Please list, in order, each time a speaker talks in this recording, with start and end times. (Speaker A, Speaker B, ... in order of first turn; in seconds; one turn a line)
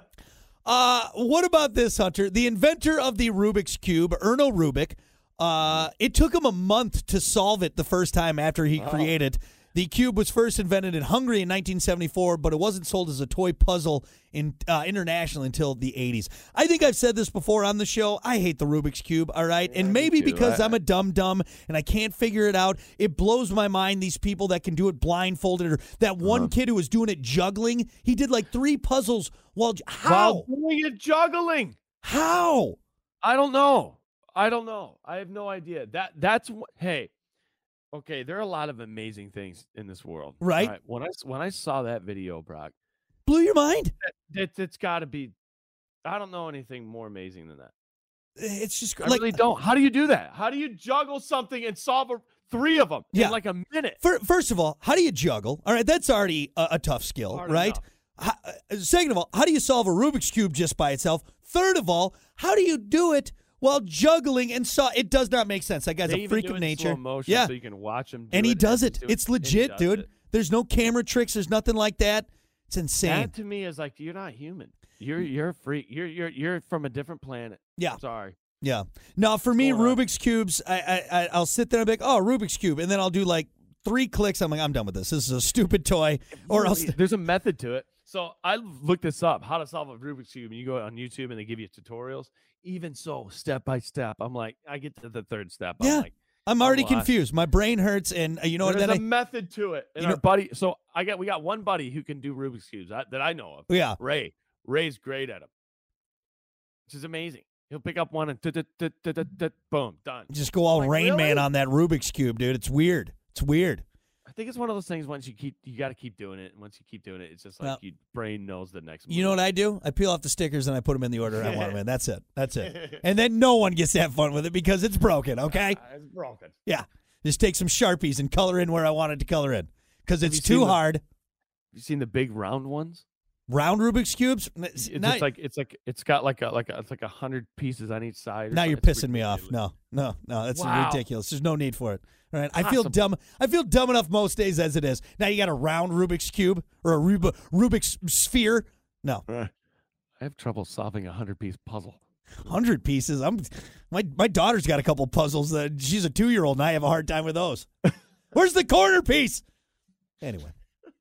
Speaker A: 0.6-30.5
Speaker B: 8.8-9.2
Speaker B: 19.7-20.8
Speaker B: 26.2-26.5
Speaker B: 30.0-31.8
Speaker A: 32.0-32.8
Speaker B: 33.2-37.1
Speaker B: 37.9-42.7
Speaker A: 40.4-40.7
Speaker A: 43.2-43.9
Speaker B: 44.0-45.3
Speaker B: 46.0-47.7
Speaker A: 48.4-49.4
Speaker B: 49.0-54.0
Speaker A: 54.0-67.5
Speaker B: 57.3-57.8
Speaker B: 66.0-70.0
Speaker A: 68.3-73.3
Speaker B: 73.0-78.4
Speaker A: 78.6-87.0
Speaker B: 79.6-80.0
Speaker B: 86.3-97.1
Speaker A: 95.8-99.0
Speaker B: 98.6-105.5
Speaker A: 103.7-104.0
Speaker B: 106.9-111.5
Speaker A: 110.3-113.8
Speaker B: 114.2-119.4
Speaker A: 119.1-125.8
Speaker B: 121.3-121.8
Speaker B: 122.6-123.0
Speaker B: 125.5-126.5
Speaker A: 126.7-131.0
Speaker B: 130.2-130.8
Speaker B: 131.7-133.0
Speaker A: 133.5-135.3
Speaker B: 134.8-139.5
Speaker A: 138.5-149.2
Speaker B: 140.5-141.0
Speaker B: 142.5-143.0
Speaker B: 150.2-152.0
Speaker A: 152.4-157.7
Speaker A: 158.3-159.4
Speaker A: 160.2-160.5